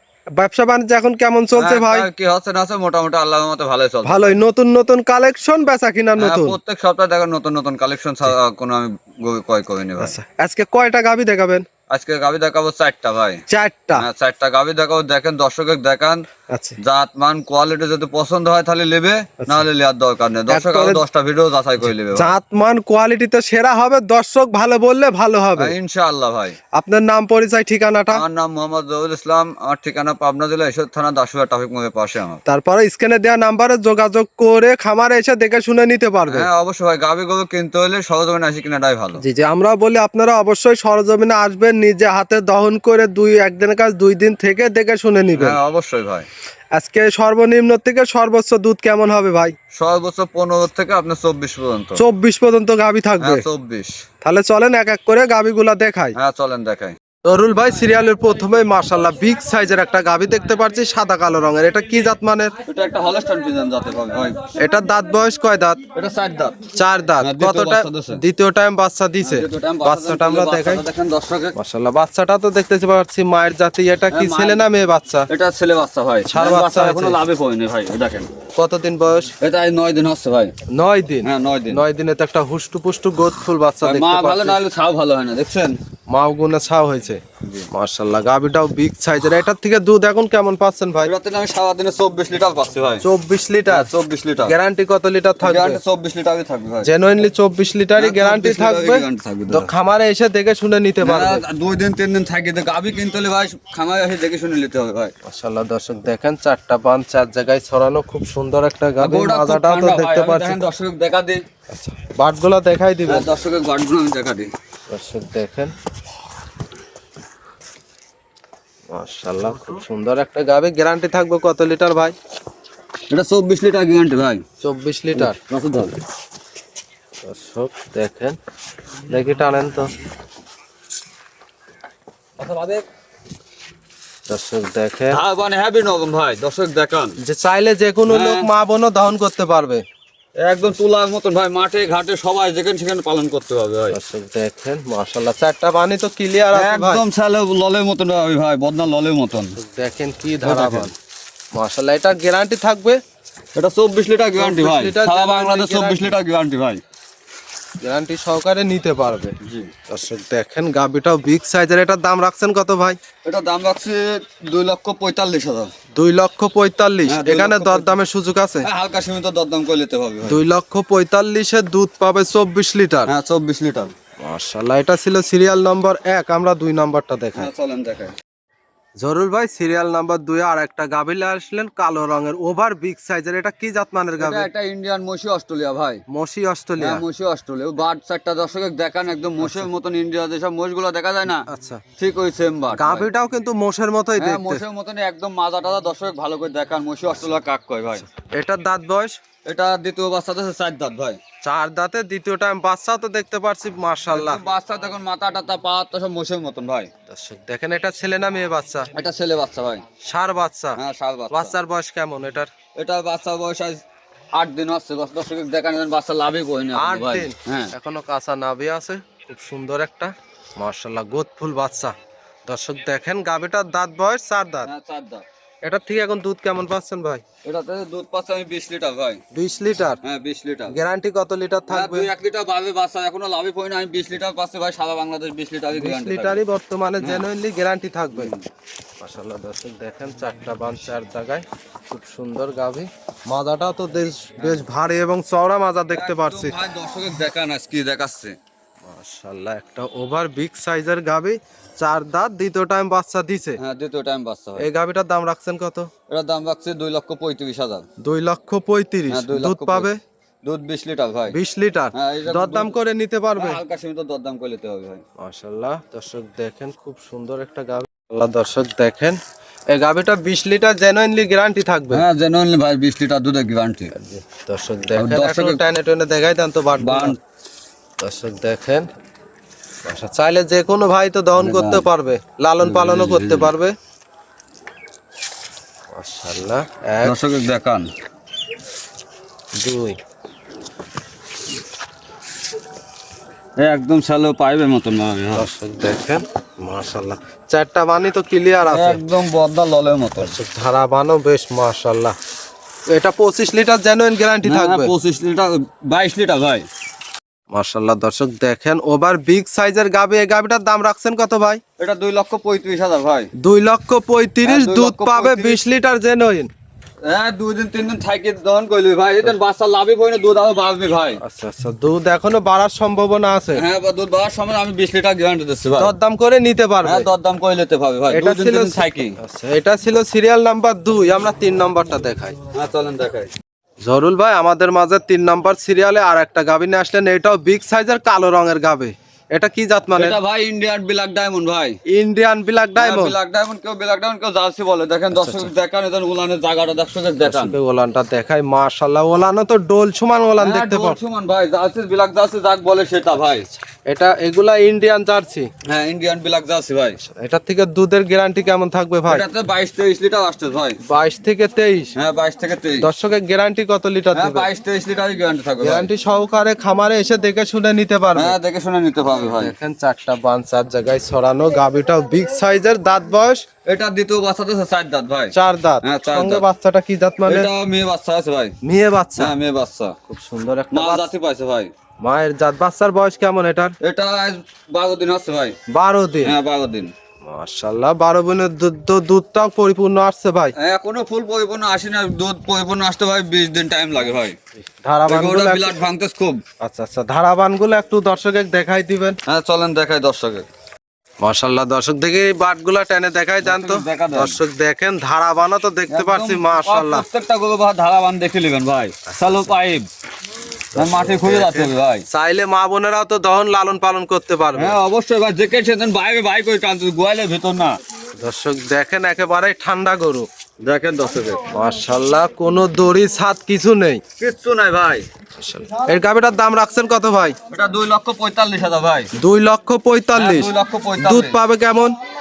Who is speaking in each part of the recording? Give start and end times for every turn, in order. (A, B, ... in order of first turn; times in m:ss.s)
0:00.4-0:02.1 A
0:01.6-0:04.4 B
0:04.0-0:06.6 A
0:06.2-0:10.2 B
0:10.0-0:11.6 A
0:11.9-0:13.4 B
0:13.5-0:14.0 A
0:14.0-0:16.2 B
0:16.5-0:16.8 A
0:16.8-0:22.3 B
0:20.5-0:21.0 A
0:22.1-0:25.8 A
0:25.6-0:26.6 B
0:26.7-0:28.2 A
0:28.1-0:32.4 B
0:32.5-0:36.5 A
0:36.3-0:39.2 B
0:39.2-0:45.6 A
0:45.3-0:46.3 B
0:46.7-0:49.5 A
0:49.7-0:52.0 B
0:52.0-0:53.5 A
0:53.2-0:54.0 B
0:54.2-0:56.2 A
0:56.1-0:56.9 B
0:57.2-1:02.5 A
1:02.7-1:04.4 B
1:04.6-1:05.8 A
1:05.9-1:06.6 B
1:06.7-1:10.8 A
1:07.2-1:08.2 B
1:09.2-1:11.5 B
1:11.5-1:15.3 A
1:14.1-1:14.6 B
1:15.3-1:18.3 B
1:16.3-1:17.2 A
1:18.6-1:19.3 A
1:19.4-1:20.5 B
1:20.7-1:24.6 A
1:21.2-1:21.8 B
1:23.8-1:25.8 B
1:26.1-1:31.1 A
1:27.4-1:27.7 B
1:31.0-1:33.0 B
1:33.0-1:33.9 A
1:33.7-1:34.5 B
1:34.5-1:35.8 A
1:35.4-1:36.9 B
1:36.8-1:41.4 A
1:38.0-1:39.7 B
1:41.0-1:45.1 B
1:45.2-1:50.6 A
1:49.0-1:51.4 B
1:51.7-1:53.3 A
1:53.0-1:54.5 B
1:54.9-1:55.7 A
1:58.9-2:02.1 A
2:03.1-2:04.4 B
2:04.6-2:05.4 A
2:05.1-2:06.0 B
2:07.2-2:08.4 A
2:09.1-2:09.9 A
2:12.4-2:12.8 B
2:14.3-2:15.2 A
2:15.1-2:17.2 B
2:17.2-2:19.8 A
2:18.1-2:18.5 B
2:20.4-2:24.0 B
2:23.9-2:27.0 A
2:26.5-2:29.6 B
2:29.6-2:30.9 A
2:30.4-2:30.9 B
2:31.5-2:33.0 A
2:33.5-2:36.8 B
2:34.4-2:36.1 A
2:37.8-2:39.3 A
2:39.4-2:39.7 B
2:39.9-2:43.0 A
2:43.2-2:45.7 B
2:45.9-2:48.7 A
2:47.1-2:48.0 B
2:48.6-2:50.4 B
2:50.2-2:53.1 A
2:53.1-2:53.9 B
2:54.2-2:57.5 A
2:57.3-2:58.1 B
2:59.0-3:04.5 A
3:04.2-3:06.0 B
3:06.1-3:07.0 A
3:06.8-3:11.4 B
3:09.4-3:09.7 A
3:11.5-3:11.8 A
3:12.0-3:13.1 B
3:12.8-3:14.6 A
3:14.2-3:18.0 B
3:18.2-3:19.1 A
3:19.4-3:21.2 B
3:21.4-3:24.4 A
3:24.1-3:26.9 B
3:27.1-3:28.9 A
3:28.9-3:29.8 B
3:30.0-3:30.8 A
3:30.8-3:31.5 B
3:31.3-3:32.5 A
3:32.8-3:33.8 B
3:34.3-3:37.7 B
3:36.7-3:41.9 A
3:42.5-3:44.7 A
3:44.6-3:45.2 B
3:45.6-3:47.2 A
3:47.4-3:49.2 B
3:49.3-3:50.0 A
3:50.0-3:50.7 B
3:50.7-3:52.1 A
3:51.7-3:56.4 B
3:55.7-3:58.3 A
3:58.2-3:58.4 B
3:59.0-4:06.6 A
4:05.9-4:08.4 B
4:08.9-4:13.6 A
4:13.6-4:14.7 B
4:14.6-4:15.9 A
4:16.1-4:17.8 B
4:18.0-4:20.0 A
4:19.1-4:19.9 B
4:20.4-4:21.4 B
4:21.3-4:23.6 A
4:21.9-4:22.7 B
4:23.4-4:25.0 B
4:25.2-4:29.2 A
4:29.7-4:32.0 A
4:31.9-4:33.9 B
4:33.9-4:37.2 A
4:35.0-4:35.6 B
4:36.8-4:37.2 B
4:38.0-4:38.9 A
4:39.8-4:43.7 A
4:41.4-4:41.8 B
4:42.6-4:43.5 B
4:45.9-4:47.2 A
4:47.0-4:47.9 B
4:49.6-4:50.0 A
4:53.6-4:55.5 B
4:55.3-4:59.0 A
4:58.7-5:00.3 B
5:00.2-5:02.1 A
5:02.9-5:04.9 A
5:04.4-5:06.6 B
5:07.5-5:11.6 A
5:11.8-5:13.3 B
5:13.4-5:16.5 A
5:14.4-5:15.6 B
5:17.0-5:21.2 B
5:21.2-5:23.6 A
5:23.5-5:25.9 B
5:25.8-5:27.1 A
5:26.8-5:29.2 B
5:28.1-5:32.4 A
5:32.5-5:33.3 B
5:33.8-5:40.2 A
5:40.0-5:41.8 B
5:41.9-5:43.2 A
5:42.8-5:47.6 B
5:45.1-5:45.5 A
5:47.2-5:51.0 A
5:50.4-5:53.5 B
5:53.9-5:55.5 A
5:55.7-5:57.0 B
5:57.1-5:59.2 A
5:59.1-6:00.8 B
6:00.8-6:01.9 A
6:02.0-6:02.9 B
6:02.8-6:04.5 A
6:04.1-6:05.9 B
6:05.6-6:08.4 A
6:08.1-6:09.5 B
6:09.4-6:13.4 A
6:13.6-6:16.4 B
6:15.3-6:17.5 A
6:17.2-6:18.5 B
6:18.6-6:19.4 A
6:19.2-6:19.9 B
6:20.1-6:21.1 A
6:20.7-6:21.7 B
6:22.0-6:23.7 A
6:23.8-6:25.5 B
6:25.7-6:26.3 A
6:26.2-6:26.9 B
6:27.2-6:30.5 A
6:30.6-6:34.4 B
6:34.8-6:35.8 A
6:35.1-6:36.4 B
6:36.6-6:39.2 A
6:39.3-6:40.4 B
6:41.2-6:47.0 A
6:43.4-6:44.4 B
6:45.9-6:49.9 B
6:49.2-6:49.4 A
6:50.7-6:54.8 A
6:50.8-6:52.0 B
6:54.5-6:57.8 B
6:58.2-7:00.3 A
7:00.6-7:01.4 B
7:01.5-7:04.0 A
7:04.2-7:05.0 B
7:05.4-7:07.3 A
7:07.5-7:09.1 B
7:09.2-7:12.0 A
7:10.2-7:11.4 B